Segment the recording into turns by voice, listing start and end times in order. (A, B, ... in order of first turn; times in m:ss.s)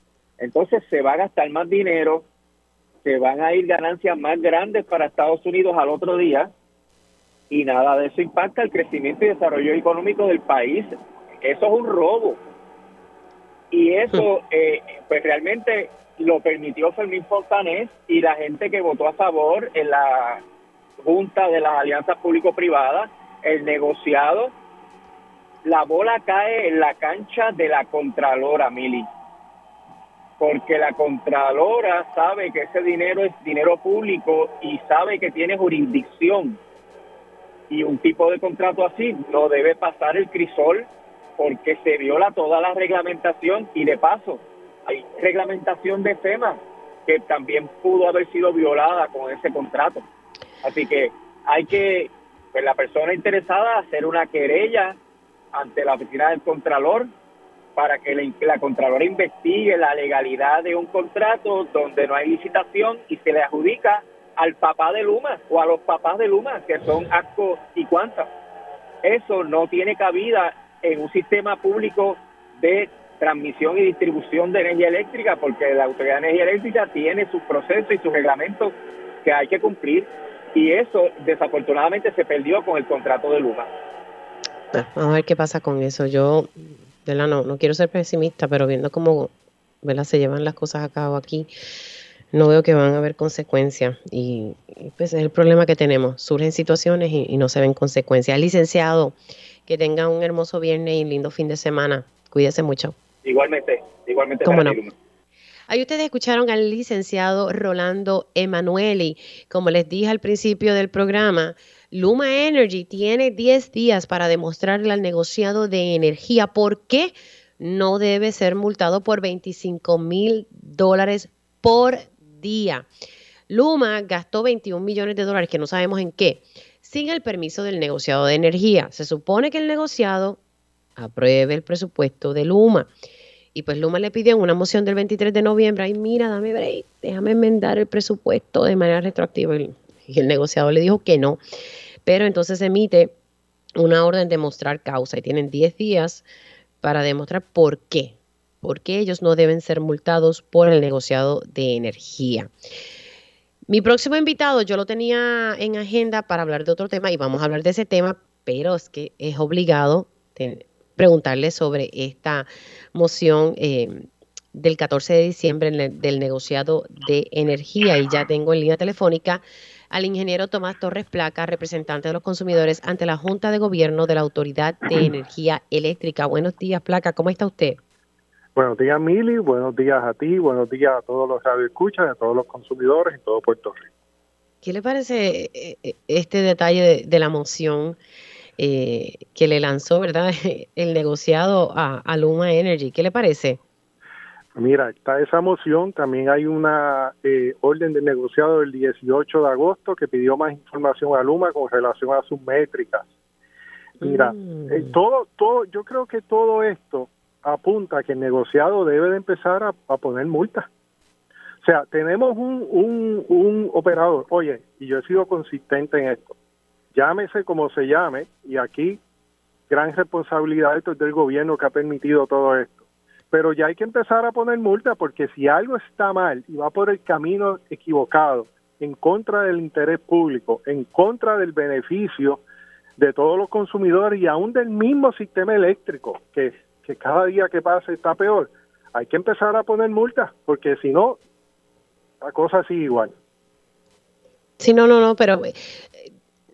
0:00.4-0:02.3 A
0:03.0-0:06.5 A
0:07.5-0:12.4 A
0:13.7-0:20.4 A
0:21.0-0:24.5 A
0:25.6-0:29.1 A
0:30.4-0:36.6 A
0:37.7-0:40.9 A
0:41.4-0:50.0 A
0:50.6-0:55.0 A
0:55.5-0:57.1 A
0:57.8-1:08.3 A
1:09.0-1:23.7 A
1:24.7-1:29.3 B
1:29.8-1:31.5 B
1:32.3-1:39.1 B
1:39.6-1:43.0 B
1:43.2-1:44.9 A
1:44.4-1:44.8 B
1:45.7-2:02.8 B
2:03.5-2:10.4 B
2:11.0-2:12.9 B
2:13.5-2:21.4 B
2:22.0-2:23.1 B
2:23.8-2:26.2 B
2:26.8-2:32.5 B
2:33.7-2:57.8 B
2:58.6-3:03.8 C
3:04.6-3:08.0 B
3:08.6-3:13.6 B
3:14.5-3:23.1 C
3:24.0-3:25.0 B
3:24.0-3:30.7 C
3:31.6-3:36.4 C
3:36.9-3:39.0 C
3:39.7-3:52.4 C
3:53.0-4:01.2 C
4:02.2-4:03.1 C
4:04.6-4:06.1 B